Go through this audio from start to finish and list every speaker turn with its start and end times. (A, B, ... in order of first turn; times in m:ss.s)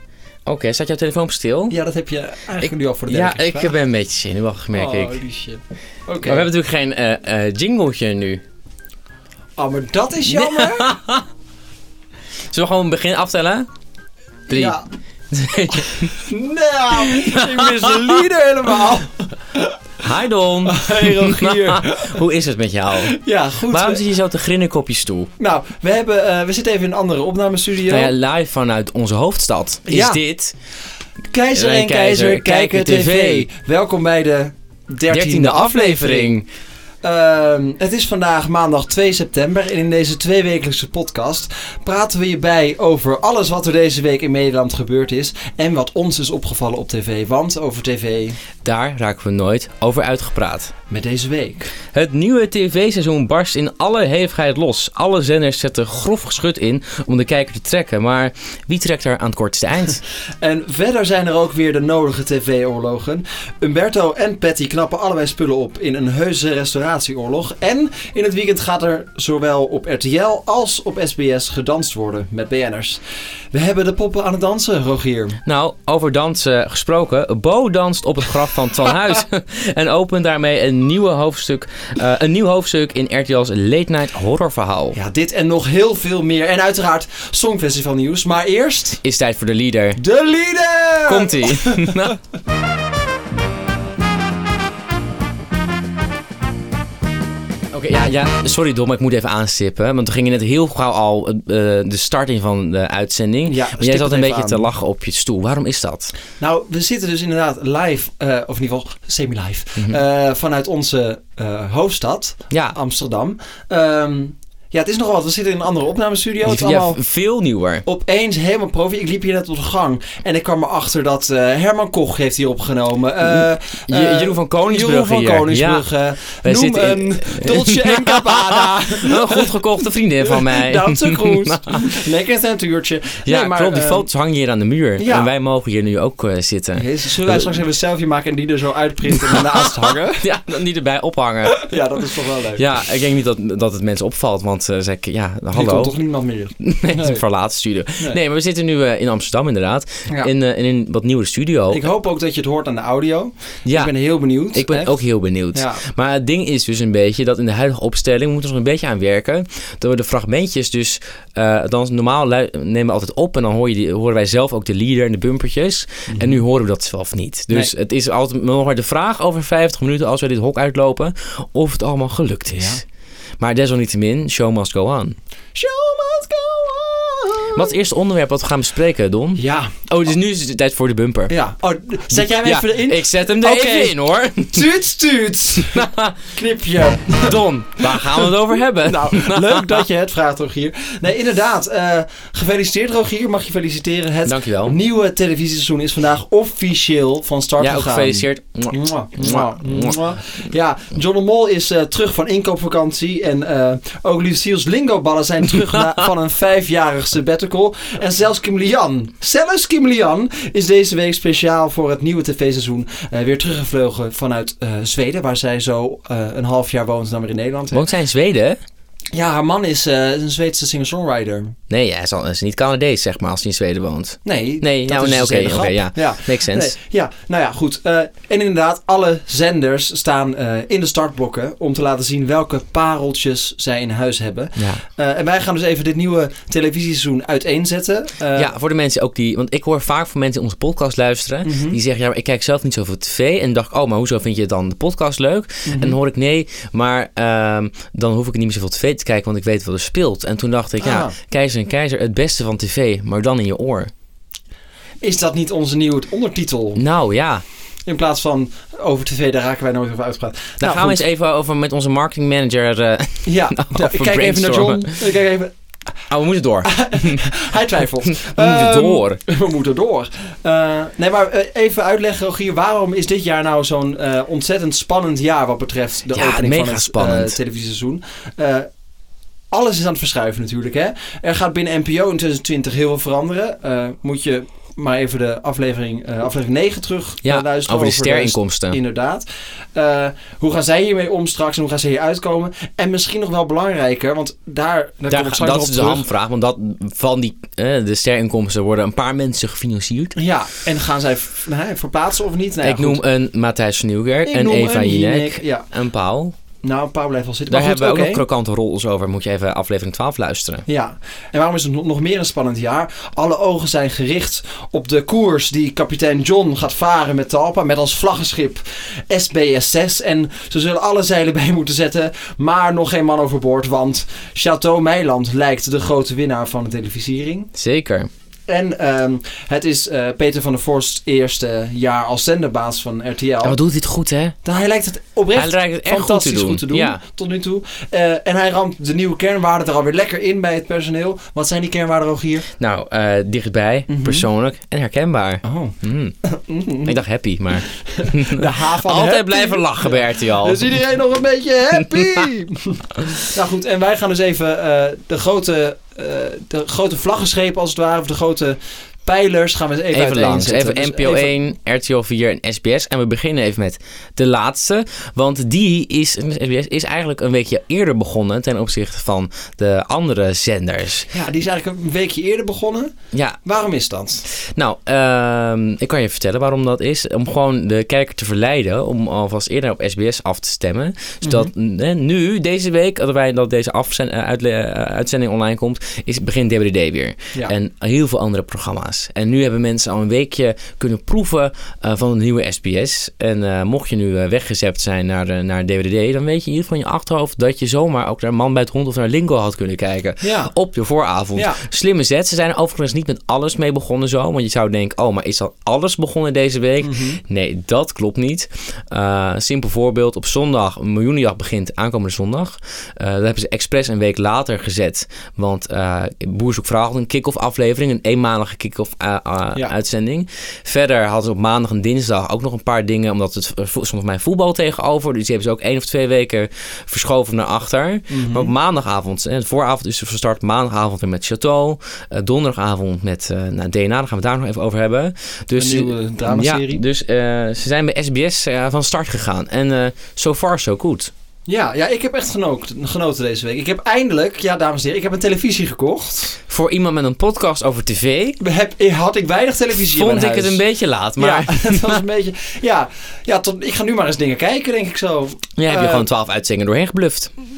0:00.4-0:01.8 A
0:01.7-0:03.7 B
0:02.6-0:05.2 A
0:04.7-0:06.5 B
0:06.2-0:08.4 A
0:09.6-0:11.0 B
0:10.3-0:11.2 A
0:12.5-0:13.7 A
0:14.5-0:14.8 B
0:14.5-0:14.8 A
0:15.3-0:16.1 A
0:15.7-0:19.8 B
0:17.2-0:17.9 A
0:20.0-0:25.3 A
0:20.6-0:22.2 B
0:23.0-0:24.0 B
0:25.4-0:28.1 B
0:27.9-0:30.5 A
0:29.9-0:30.2 B
0:31.3-0:36.4 B
0:31.5-0:33.5 A
0:35.1-0:36.4 A
0:37.0-0:48.4 B
0:48.6-0:50.7 A
0:50.9-0:51.7 B
0:51.9-1:00.0 A
1:00.4-1:15.4 B
1:15.4-1:25.0 A
1:24.9-1:29.0 B
1:29.0-1:30.0 A
1:30.0-1:32.2 B
1:31.0-1:32.2 A
1:37.7-1:46.1 A
1:43.4-1:44.7 B
1:46.4-1:57.0 B
1:49.8-1:50.0 A
1:52.5-1:52.8 A
1:56.4-1:57.8 A
1:57.8-2:09.5 B
2:03.2-2:12.0 A
2:10.2-2:14.1 B
2:13.2-2:17.5 A
2:15.0-2:15.3 B
2:16.8-2:20.3 B
2:19.2-2:19.6 A
2:20.2-2:21.7 A
2:21.5-2:22.6 B
2:22.6-2:25.9 A
2:25.5-2:27.2 B
2:26.6-2:31.8 A
2:30.1-2:30.3 B
2:31.7-2:35.0 B
2:33.6-2:33.9 A
2:34.5-2:52.8 A
2:35.5-2:35.8 B
2:46.1-2:46.4 B
2:52.5-2:52.8 B
2:53.4-2:55.2 A
2:55.5-2:57.7 B
2:57.5-3:01.4 A
2:59.4-2:59.8 B
3:01.3-3:03.9 B
3:02.1-3:04.6 A
3:04.5-3:37.8 B
3:05.7-3:06.2 A
3:07.2-3:09.8 A
3:14.2-3:14.8 A
3:17.6-3:20.0 A
3:37.7-3:38.6 A
3:39.1-3:41.6 B
3:41.7-3:46.7 A
3:44.2-3:58.5 B
3:54.6-3:54.8 A
3:58.4-4:13.9 A
4:01.4-4:01.8 B
4:05.6-4:06.0 B
4:10.8-4:11.1 B
4:15.0-4:16.8 B
4:16.8-4:17.4 A
4:17.8-4:21.0 B
4:20.6-4:25.0 A
4:23.2-4:25.5 B
4:26.1-4:27.2 A
4:26.6-4:38.7 B
4:28.1-4:29.2 A
4:36.1-4:37.4 A
4:39.5-4:56.1 B
4:47.2-4:48.8 A
4:55.1-5:00.2 A
5:00.2-5:03.0 B
5:02.6-5:06.3 A
5:04.2-5:05.7 B
5:06.6-5:08.2 B
5:07.5-5:10.6 A
5:10.7-5:27.5 B
5:27.6-5:28.1 A
5:28.5-5:33.6 B
5:33.4-5:34.3 A
5:34.4-5:42.4 B
5:35.3-5:37.0 A
5:42.6-5:46.2 A
5:43.9-5:44.2 B
5:45.4-5:47.0 B
5:46.8-5:50.7 A
5:47.7-6:01.4 B
5:59.9-6:11.1 A
6:11.1-6:14.2 B
6:13.1-6:13.4 A
6:14.3-7:21.1 A
6:21.2-6:21.5 B
6:40.2-6:40.5 B
6:41.3-6:41.6 B
6:46.8-6:47.2 B
7:08.1-7:08.5 B
7:15.6-7:16.8 B
7:21.4-7:26.4 B
7:26.5-7:28.4 A
7:28.4-7:30.6 B
7:29.9-7:32.0 A
7:31.2-7:36.1 B
7:35.6-7:37.3 A